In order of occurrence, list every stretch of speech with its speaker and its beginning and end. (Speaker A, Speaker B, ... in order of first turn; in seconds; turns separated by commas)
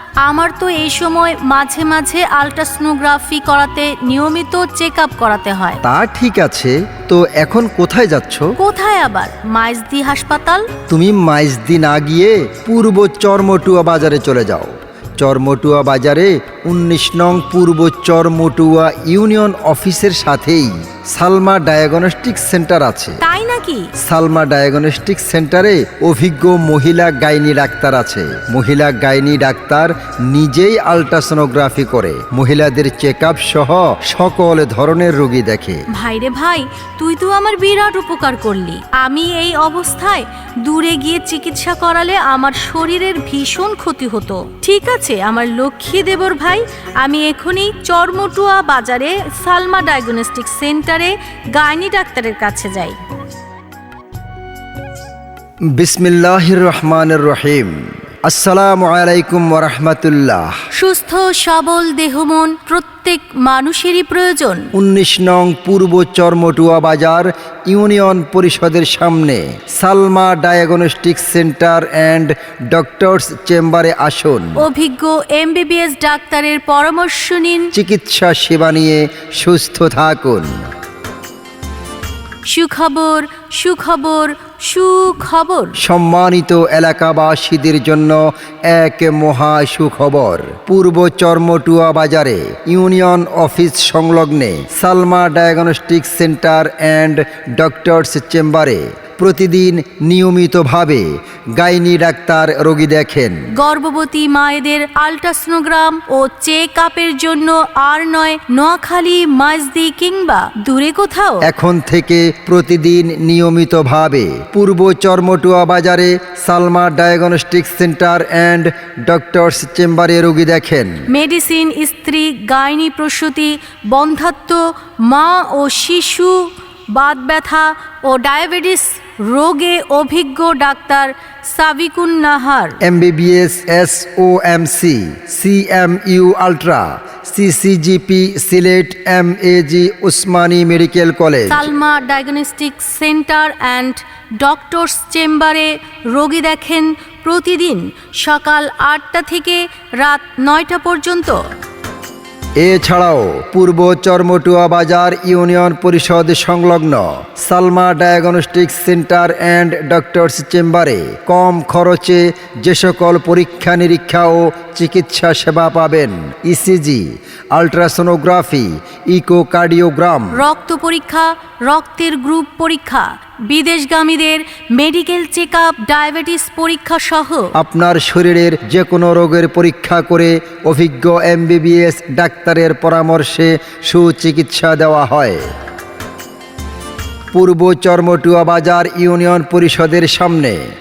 Speaker A: 0.2-5.8, Speaker B: 5.8-8.5, Speaker A: 8.6-10.7, Speaker B: 10.9-23.2, Speaker A: 23.2-23.9, Speaker B: 24.0-35.8, Speaker A: 35.9-53.0, Speaker B: 55.8-60.5, Speaker A: 60.7-64.7, Speaker B: 64.7-74.7, Speaker A: 74.6-77.7, Speaker B: 77.7-80.6, Speaker A: 82.5-85.8, Speaker B: 85.8-103.5, Speaker A: 103.5-111.5, Speaker B: 111.4-121.0, Speaker A: 121.1-132.8, Speaker B: 132.8-141.7, Speaker A: 141.5-151.4, Speaker B: 152.6-170.4, Speaker A: 170.3-177.5, Speaker B: 177.6-185.4, Speaker B: 187.3-190.6